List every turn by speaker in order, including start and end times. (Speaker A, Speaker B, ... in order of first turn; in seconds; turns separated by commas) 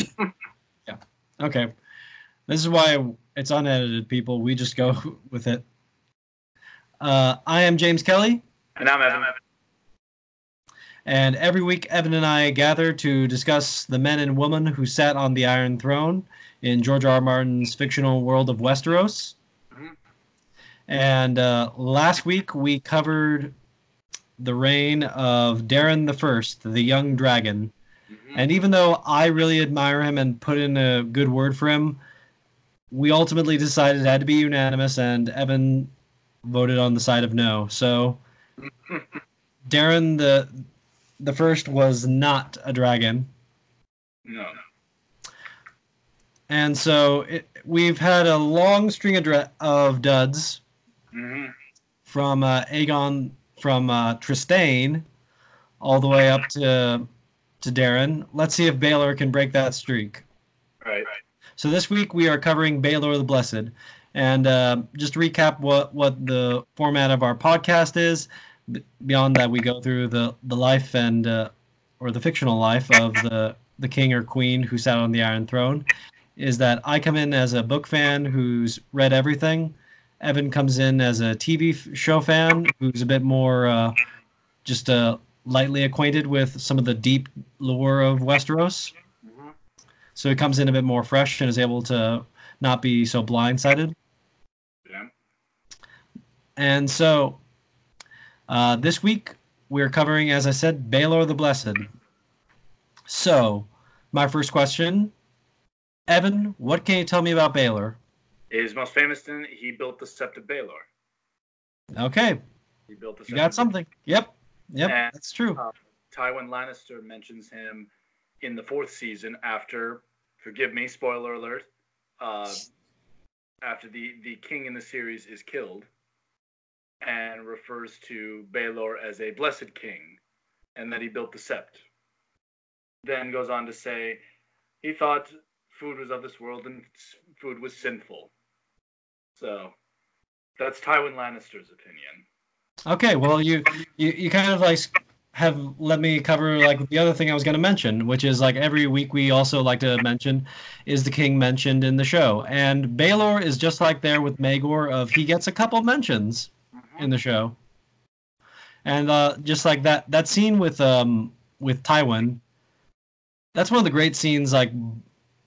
Speaker A: 0.9-1.7, Speaker A: 2.5-5.6, Speaker A: 7.0-8.4, Speaker B: 8.8-9.3, Speaker A: 11.1-19.4, Speaker A: 20.9-23.5, Speaker A: 24.4-27.7, Speaker B: 28.1-28.4, Speaker A: 28.3-32.0, Speaker A: 32.9-35.9, Speaker A: 36.4-38.2, Speaker B: 38.6-39.2, Speaker A: 39.6-40.6, Speaker A: 41.2-43.3, Speaker B: 44.2-44.6, Speaker A: 46.5-50.6, Speaker B: 51.1-51.5, Speaker A: 52.0-55.0, Speaker A: 55.8-57.1, Speaker A: 57.6-60.2, Speaker B: 60.8-61.1, Speaker A: 61.6-75.8, Speaker A: 76.4-84.0, Speaker A: 84.6-88.9, Speaker B: 89.2-89.5, Speaker A: 90.2-93.9, Speaker B: 94.8-95.1, Speaker A: 96.6-97.4, Speaker A: 98.5-101.9, Speaker A: 103.1-105.1, Speaker A: 106.1-108.0, Speaker B: 108.5-110.9, Speaker A: 111.9-112.4, Speaker B: 112.9-113.7, Speaker A: 113.3-115.6, Speaker B: 114.8-117.9, Speaker B: 118.4-121.7, Speaker B: 122.2-122.7, Speaker B: 123.6-125.9, Speaker B: 127.0-130.2, Speaker B: 130.7-131.8, Speaker B: 133.0-134.2, Speaker B: 134.8-138.3, Speaker B: 139.3-139.7, Speaker B: 140.6-142.2, Speaker A: 142.8-157.6, Speaker B: 156.8-157.1, Speaker A: 158.8-162.4, Speaker A: 163.5-165.0